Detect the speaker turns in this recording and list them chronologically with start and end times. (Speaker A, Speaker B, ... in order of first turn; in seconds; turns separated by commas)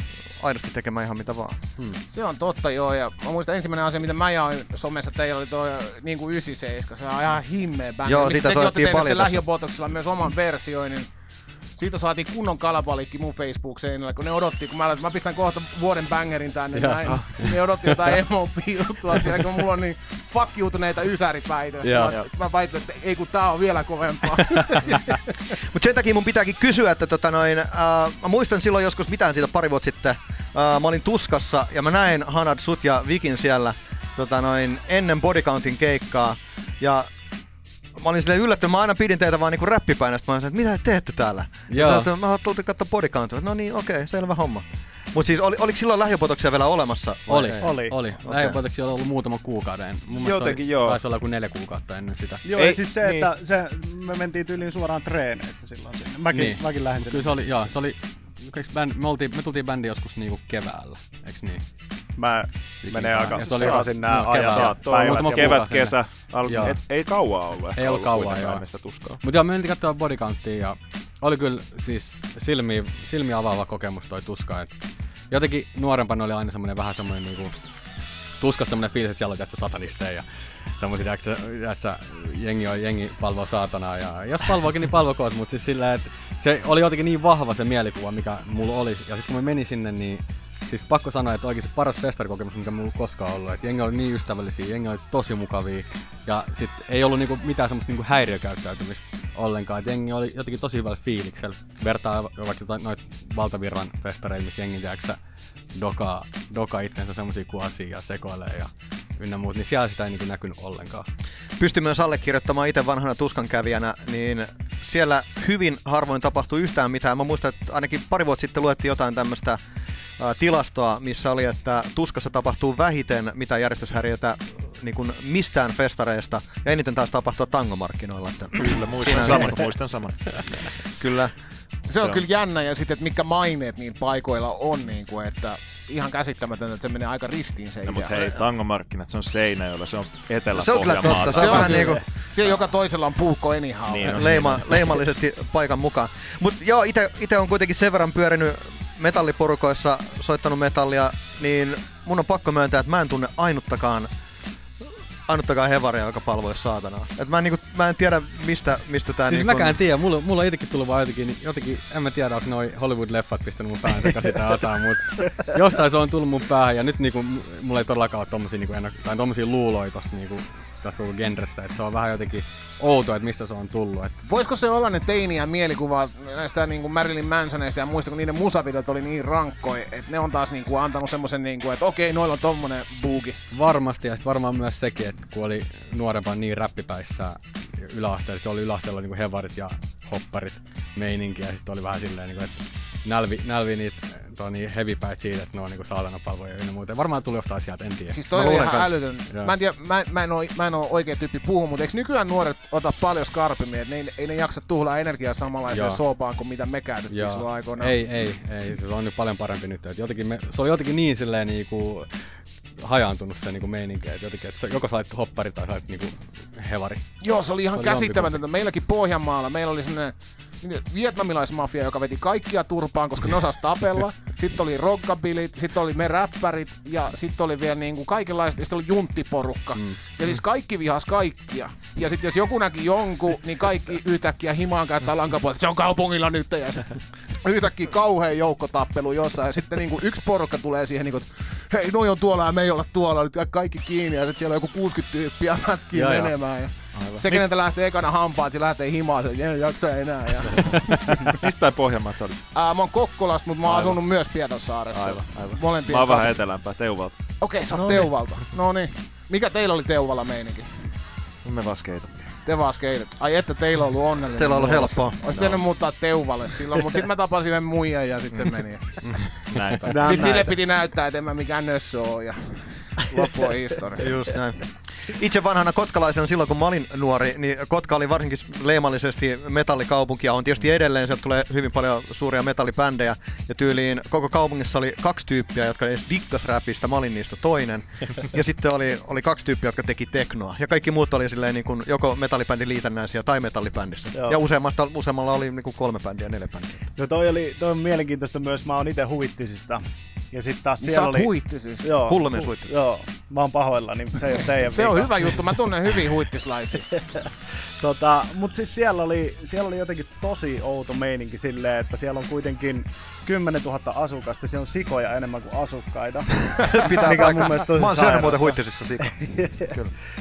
Speaker A: 0.3-1.6, Speaker B: 2.1-11.1, Speaker A: 8.1-9.4, Speaker B: 11.8-25.1, Speaker C: 16.7-17.6, Speaker C: 21.8-22.1, Speaker A: 25.6-37.1, Speaker A: 38.0-47.6, Speaker C: 41.7-42.1, Speaker C: 47.3-52.4, Speaker D: 47.6-48.0, Speaker A: 48.2-48.6, Speaker E: 50.1-51.0, Speaker D: 52.4-57.5, Speaker E: 52.5-53.3, Speaker C: 56.3-61.6, Speaker D: 62.2-65.7, Speaker C: 62.8-66.8, Speaker E: 63.3-69.2, Speaker C: 67.8-68.6, Speaker C: 69.2-74.7, Speaker C: 75.3-77.5, Speaker C: 78.4-105.2, Speaker C: 105.7-111.1, Speaker A: 111.6-119.6, Speaker A: 120.2-129.6, Speaker E: 128.6-130.7, Speaker A: 131.0-131.3, Speaker B: 131.9-138.3, Speaker E: 132.0-132.2, Speaker E: 137.8-142.0, Speaker A: 140.5-142.0, Speaker B: 141.2-144.5, Speaker E: 143.9-144.9, Speaker A: 144.0-154.1, Speaker A: 155.3-159.8, Speaker C: 159.3-174.1, Speaker B: 174.2-183.4, Speaker C: 183.5-198.2, Speaker B: 198.1-208.0, Speaker A: 198.3-198.9, Speaker C: 205.7-206.0, Speaker C: 207.1-212.1, Speaker C: 212.8-217.0, Speaker B: 217.2-251.0, Speaker C: 217.7-218.3, Speaker C: 245.9-246.3, Speaker E: 246.9-247.4, Speaker E: 251.2-252.4, Speaker B: 252.5-256.4, Speaker E: 253.6-254.0, Speaker E: 254.9-257.2, Speaker B: 257.4-260.9, Speaker A: 257.7-258.1, Speaker E: 261.4-262.4, Speaker B: 262.4-269.3, Speaker A: 264.4-265.1, Speaker E: 265.3-265.6, Speaker E: 269.0-270.3, Speaker D: 269.9-270.5, Speaker B: 270.0-274.1, Speaker A: 274.0-296.8, Speaker D: 296.9-301.3, Speaker B: 300.8-302.0, Speaker D: 301.8-305.4, Speaker A: 302.1-302.7, Speaker B: 304.6-306.9, Speaker D: 307.8-319.7, Speaker A: 316.6-319.9